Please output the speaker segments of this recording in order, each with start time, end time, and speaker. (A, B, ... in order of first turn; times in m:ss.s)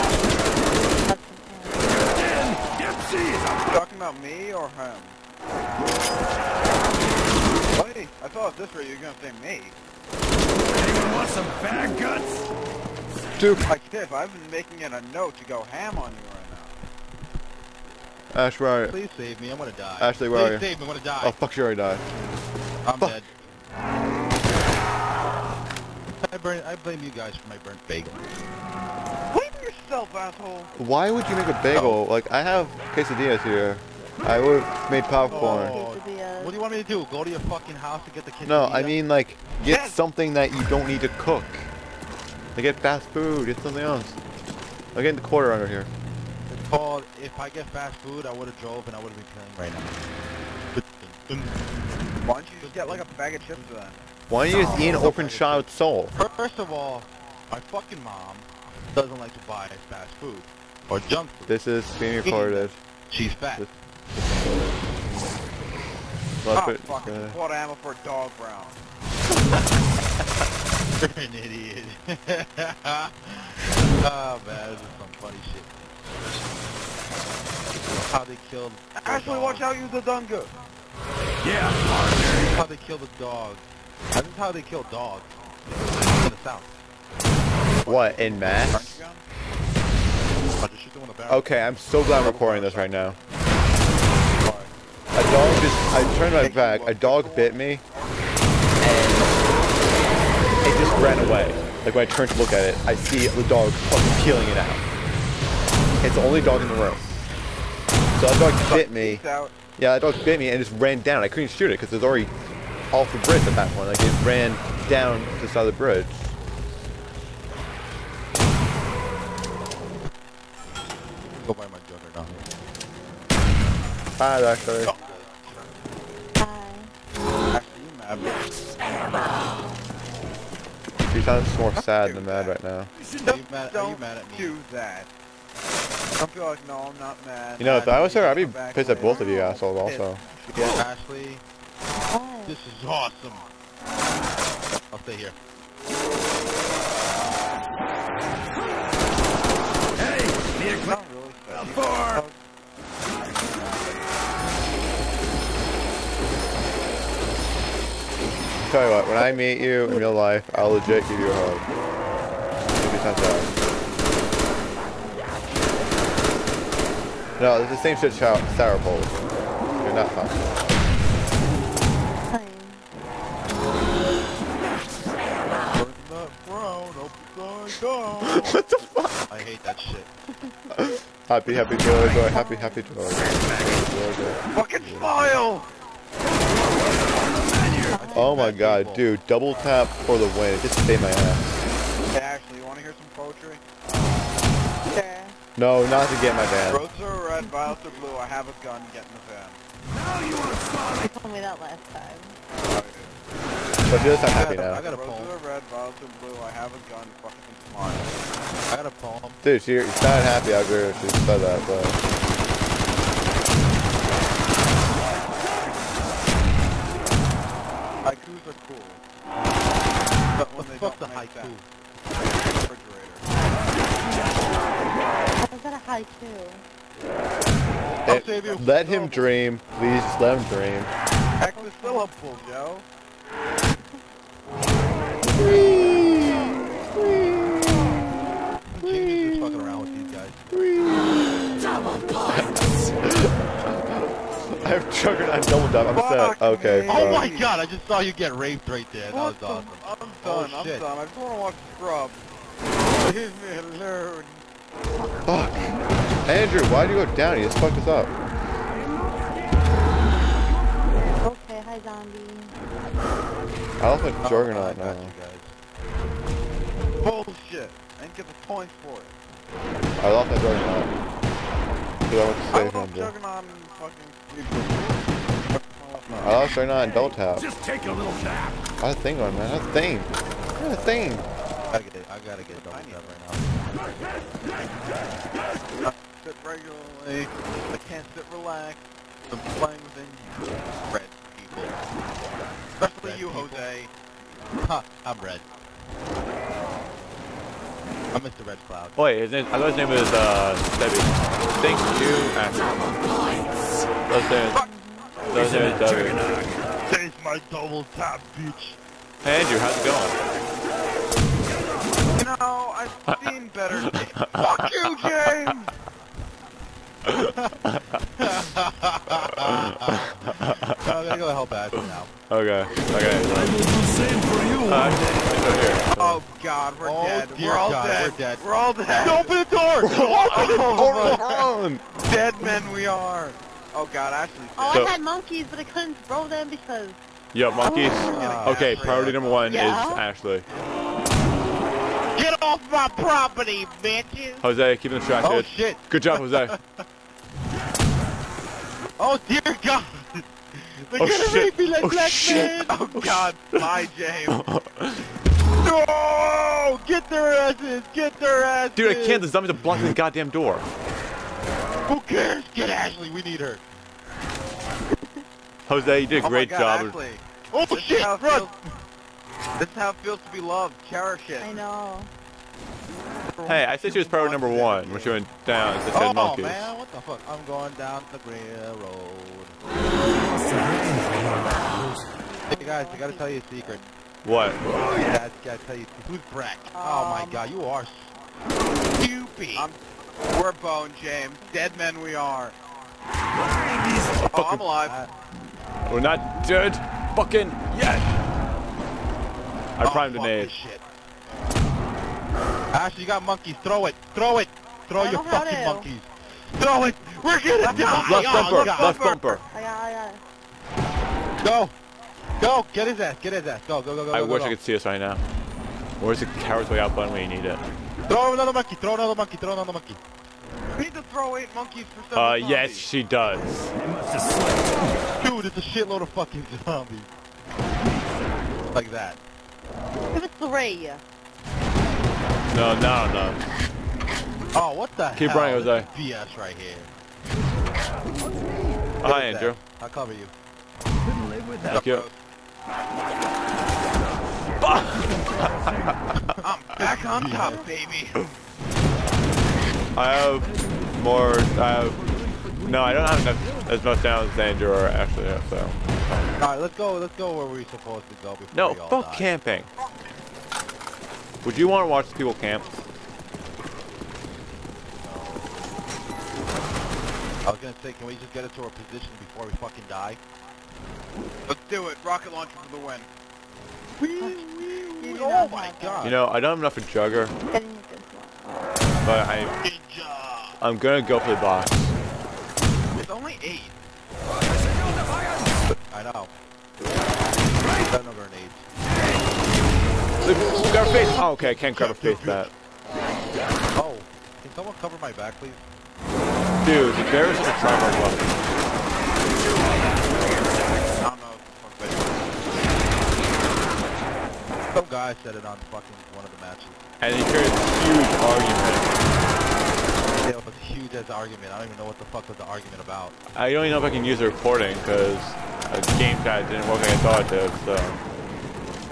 0:01.1-0:02.0 A
0:02.2-0:03.6 B
0:03.7-0:05.2 C
0:07.7-0:09.7 C
0:10.7-0:12.5 B
0:13.4-0:13.6 D
0:13.6-0:16.8 C
0:18.3-0:18.9 D
0:18.8-0:21.4 E
0:20.0-0:20.6 D
0:21.2-0:22.0 D
0:22.8-0:23.3 E
0:26.2-0:28.2 E
0:29.3-0:30.7 C
0:30.8-0:35.8 D
0:31.7-0:32.0 E
0:35.2-0:36.6 A
0:35.2-0:39.0 E
0:38.4-0:41.7 D
0:39.7-0:40.0 C
0:42.5-0:44.2 D
0:44.9-0:45.9 D
0:46.5-0:50.0 E
0:50.7-0:51.5 E
0:52.2-0:54.1 C
0:52.6-0:53.1 E
0:54.3-0:56.1 D
0:54.5-1:01.6 E
1:01.5-1:02.8 D
1:02.2-1:03.7 E
1:06.4-1:07.4 D
1:06.5-1:08.8 C
1:11.0-1:15.7 E
1:18.0-1:19.7 E
1:19.0-1:20.5 C
1:21.4-1:22.6 B
1:22.3-1:25.4 E
1:25.9-1:26.8 E
1:27.8-1:29.2 C
1:27.8-1:29.0 D
1:30.6-1:31.5 E
1:31.3-1:33.2 D
1:32.1-1:33.1 C
1:35.1-1:37.8 D
1:36.4-1:37.7 C
1:38.8-1:39.3 D
1:40.6-1:44.8 D
1:46.0-1:47.2 D
1:48.2-1:49.2 D
1:48.7-1:49.6 C
1:49.8-1:52.3 D
1:52.9-1:56.3 D
2:01.3-2:02.4 E
2:04.2-2:04.9 D
2:04.8-2:05.6 E
2:06.4-2:06.9 A
2:07.5-2:08.4 C
2:11.0-2:12.9 D
2:11.7-2:12.6 C
2:13.2-2:15.1 C
2:13.2-2:14.6 E
2:16.2-2:20.8 C
2:17.6-2:20.8 D
2:18.9-2:19.6 A
2:20.7-2:21.4 E
2:22.1-2:22.6 A
2:22.4-2:23.5 E
2:24.8-2:25.4 E
2:30.0-2:30.9 B
2:30.7-2:32.3 C
2:38.6-2:41.6 D
2:42.8-2:43.5 D
2:47.4-2:49.1 D
2:49.8-2:50.4 D
2:52.3-2:52.8 A
2:55.7-2:58.5 C
2:55.7-2:57.7 E
2:58.2-2:59.3 D
2:59.3-3:00.1 E
3:00.7-3:05.3 D
3:02.3-3:02.9 A
3:03.3-3:03.6 B
3:04.5-3:05.7 C
3:07.2-3:08.0 B
3:07.9-3:08.5 A
3:07.9-3:09.1 E
3:08.1-3:11.5 D
3:12.1-3:13.6 C
3:14.9-3:15.3 A
3:15.6-3:16.8 D
3:16.7-3:19.6 C
3:20.1-3:20.9 B
3:21.0-3:22.4 A
3:22.5-3:23.2 C
3:23.9-3:24.8 D
3:24.3-3:25.4 E
3:24.6-3:28.1 C
3:28.7-3:29.4 E
3:29.4-3:32.0 D
3:38.0-3:39.0 C
3:40.4-3:41.6 E
3:40.4-3:41.6 C
3:42.2-3:43.3 C
3:45.4-3:46.6 A
3:48.0-3:49.4 E
3:48.0-3:50.9 D
3:51.4-3:52.8 C
3:51.6-3:52.1 A
3:55.3-3:58.0 D
3:58.7-4:00.5 E
3:58.8-4:07.3 D
4:05.9-4:07.5 C
4:06.9-4:10.8 E
4:09.1-4:12.2 C
4:13.0-4:14.4 C
4:15.2-4:18.1 D
4:21.2-4:22.5 A
4:23.8-4:25.1 D
4:24.2-4:25.5 E
4:27.0-4:29.1 C
4:30.0-4:30.9 D
4:32.0-4:33.1 D
4:32.5-4:36.6 C
4:36.1-4:37.5 D
4:37.3-4:38.7 B
4:38.8-4:41.3 D
4:41.7-4:43.7 E
4:42.5-4:43.2 C
4:45.8-4:48.8 C
4:49.3-4:50.5 C
4:50.9-4:51.7 E
4:52.8-4:53.7 E
4:52.8-4:53.9 C
4:54.6-4:55.4 E
4:58.1-4:59.0 E
4:59.0-5:03.0 D
5:04.1-5:04.6 D
5:04.5-5:05.1 A
5:05.3-5:06.6 B
5:05.3-5:06.2 D
5:06.8-5:08.8 E
5:09.2-5:10.2 D
5:12.1-5:15.7 C
5:13.7-5:15.5 D
5:17.0-5:18.0 D
5:18.2-5:22.1 E
5:19.2-5:21.2 D
5:22.3-5:23.6 D
5:23.2-5:25.3 B
5:24.6-5:26.2 D
5:26.0-5:29.3 C
5:26.8-5:28.4 E
5:29.0-5:31.4 E
5:29.8-5:31.8 D
5:29.9-5:34.9 C
5:34.6-5:37.0 A
5:34.7-5:34.9 D
5:37.3-5:40.4 D
5:37.6-5:38.0 A
5:37.9-5:39.4 C
5:38.0-5:39.7 E
5:39.5-5:40.0 A
5:42.1-5:44.4 E
5:44.4-5:46.5 D
5:45.2-5:46.8 E
5:49.0-5:52.8 E
5:51.0-5:55.1 D
5:52.5-5:54.4 C
5:55.6-5:59.3 E
5:58.8-6:00.7 D
6:01.9-6:03.6 E
6:05.7-6:07.0 D
6:06.2-6:08.5 C
6:07.5-6:08.5 E
6:09.6-6:11.6 C
6:11.4-6:12.1 A
6:13.4-6:16.7 D
6:13.5-6:15.1 C
6:14.4-6:14.8 E
6:15.9-6:19.6 E
6:20.2-6:22.1 B
6:22.3-6:23.9 A
6:22.5-6:23.8 E
6:24.2-6:24.6 D
6:25.0-6:28.2 E
6:26.7-6:27.4 A
6:28.9-6:29.7 E
6:30.3-6:32.6 C
6:31.4-6:31.8 A
6:33.6-6:34.3 B
6:34.3-6:35.0 C
6:34.3-6:34.7 D
6:34.5-6:35.1 E
6:35.8-6:38.2 D
6:39.8-6:40.5 D
6:39.8-6:40.8 E
6:42.7-6:49.0 E
6:45.0-6:45.9 A
6:47.6-6:49.4 D
6:47.7-6:49.4 C
6:49.5-6:50.2 A
6:51.4-6:51.7 E
6:52.4-6:54.6 E
6:54.1-6:55.2 D
6:56.0-6:57.6 D
6:58.1-7:00.0 E
7:00.7-7:02.9 C
7:02.1-7:03.7 D
7:03.8-7:05.0 B
7:05.2-7:07.1 E
7:08.7-7:09.2 E
7:10.1-7:11.0 A
7:12.5-7:13.4 D
7:14.5-7:16.9 E
7:15.1-7:15.9 D
7:18.2-7:18.9 B
7:19.0-7:19.6 D
7:19.0-7:20.3 E
7:21.0-7:21.8 B
7:21.7-7:22.1 D
7:21.7-7:22.2 C
7:24.6-7:26.2 D
7:25.0-7:26.0 B
7:26.3-7:27.7 E
7:26.4-7:28.2 C
7:29.9-7:32.0 D
7:32.5-7:32.8 B
7:32.6-7:35.8 D
7:36.4-7:39.3 E
7:38.5-7:39.7 D
7:41.4-7:42.8 D
7:45.0-7:45.7 E
7:47.4-7:50.2 E
7:51.5-7:53.1 C
7:54.0-7:56.2 E
7:54.2-7:56.2 A
7:56.0-7:57.3 D
7:57.5-7:58.8 A
7:59.0-7:59.6 D
7:59.6-8:00.6 E
8:00.6-8:01.9 D
8:03.0-8:03.7 C
8:05.9-8:06.3 E
8:07.7-8:08.7 E
8:10.2-8:12.5 D
8:11.2-8:12.5 E
8:13.8-8:15.6 E
8:16.6-8:18.3 D
8:21.0-8:22.5 C
8:24.7-8:26.8 E
8:27.0-8:28.9 D
8:30.2-8:33.2 E
8:33.3-8:38.0 D